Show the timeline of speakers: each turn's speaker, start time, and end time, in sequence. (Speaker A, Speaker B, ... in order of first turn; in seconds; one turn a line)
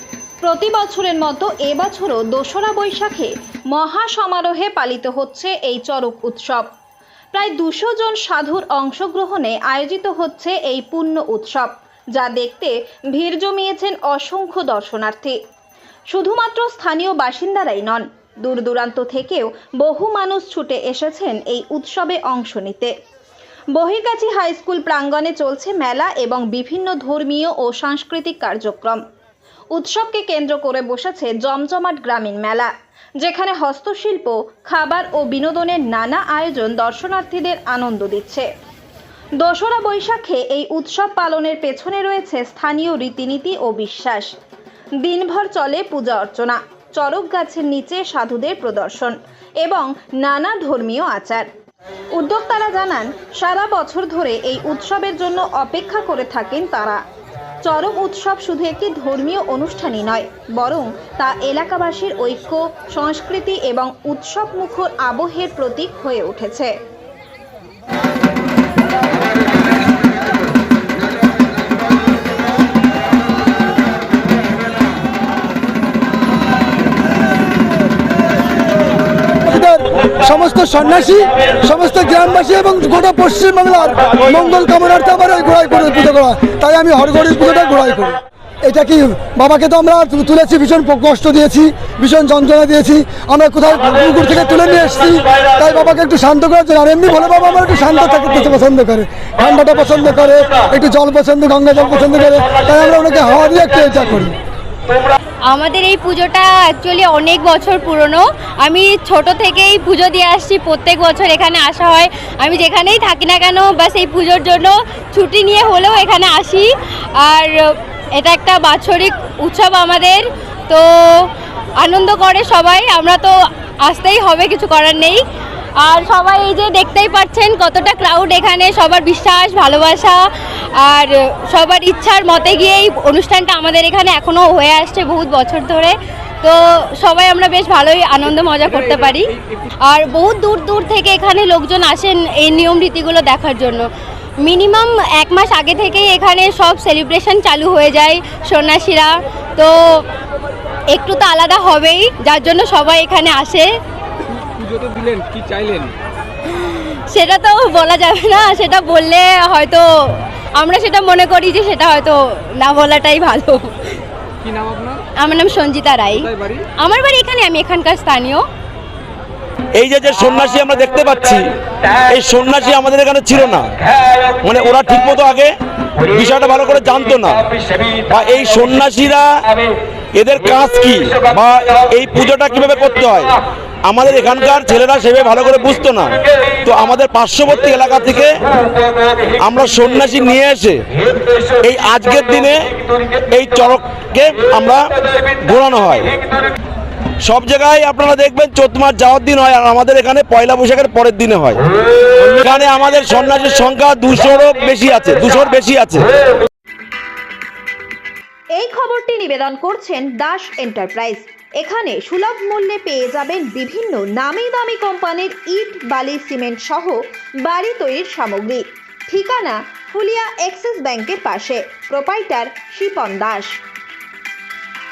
Speaker A: 0.4-6.7
Speaker A: 7.3-15.4
Speaker A: 16.1-22.9
Speaker A: 23.7-29.0
Speaker A: 29.7-38.5
Speaker A: 39.4-44.3
Speaker A: 45.0-51.5
Speaker A: 52.1-57.0
Speaker A: 57.6-66.7
Speaker B: 79.4-104.3
Speaker C: 105.5-116.7
Speaker C: 117.2-125.2
Speaker C: 125.8-130.2
Speaker C: 130.8-139.3
Speaker D: 138.6-139.7
Speaker C: 139.8-143.9
Speaker C: 144.4-150.0
Speaker C: 150.9-153.7
Speaker D: 154.4-155.9
Speaker C: 156.6-163.7
Speaker D: 164.4-165.0
Speaker C: 165.2-166.3
Speaker C: 166.8-168.4
Speaker E: 169.7-173.7
Speaker E: 174.4-179.3
Speaker E: 180.1-188.4
Speaker E: 189.4-190.8
Speaker E: 191.6-196.1
Speaker E: 197.2-201.6
Speaker E: 202.2-206.1
Speaker A: 208.6-223.6